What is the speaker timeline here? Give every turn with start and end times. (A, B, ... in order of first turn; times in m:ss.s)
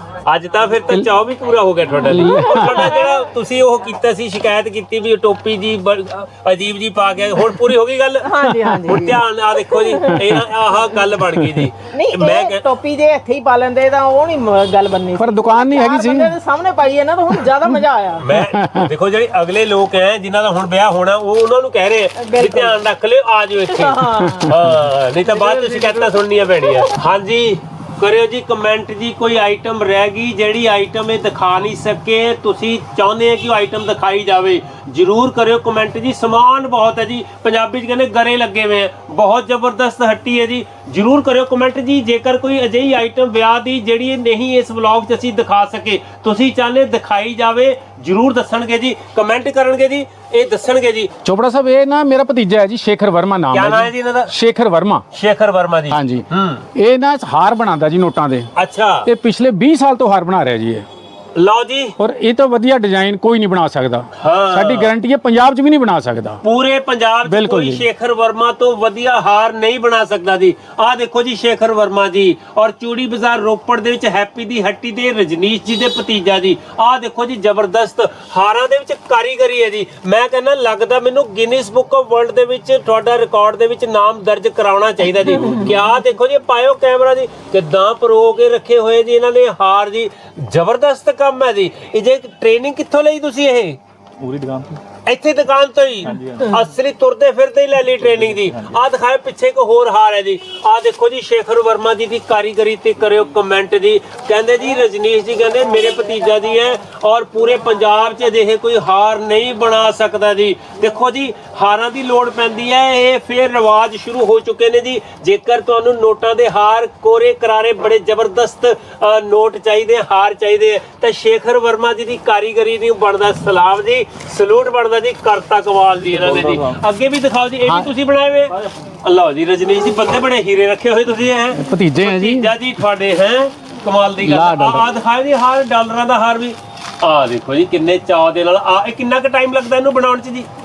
0:00.2-0:12.6 A
0:02.0-0:02.9 B
0:02.3-0:03.2 C
0:08.2-0:10.8 C
0:10.2-0:10.4 B
0:11.3-0:11.7 B
0:11.9-0:18.4 C
0:15.2-0:16.4 B
0:18.2-0:51.1 A
0:18.4-0:18.9 B
0:22.2-0:22.8 C
0:23.7-0:24.6 C
0:24.5-0:24.7 B
0:25.2-0:26.5 C
0:51.2-0:55.0 B
0:53.5-0:54.3 A
0:55.1-0:56.6 A
0:55.9-0:58.5 B
0:58.6-0:59.1 A
0:59.0-1:00.9 B
1:01.4-1:02.0 A
1:02.0-1:06.4 B
1:04.2-1:04.9 A
1:06.4-1:33.8 A
1:07.3-1:07.9 B
1:25.4-1:25.7 D
1:34.2-1:34.8 D
1:35.1-2:20.5 A
1:36.0-1:36.6 D
1:38.0-1:38.8 D
2:06.0-2:06.8 D
2:07.7-2:07.9 B
2:11.5-2:12.5 B
2:14.2-2:14.9 B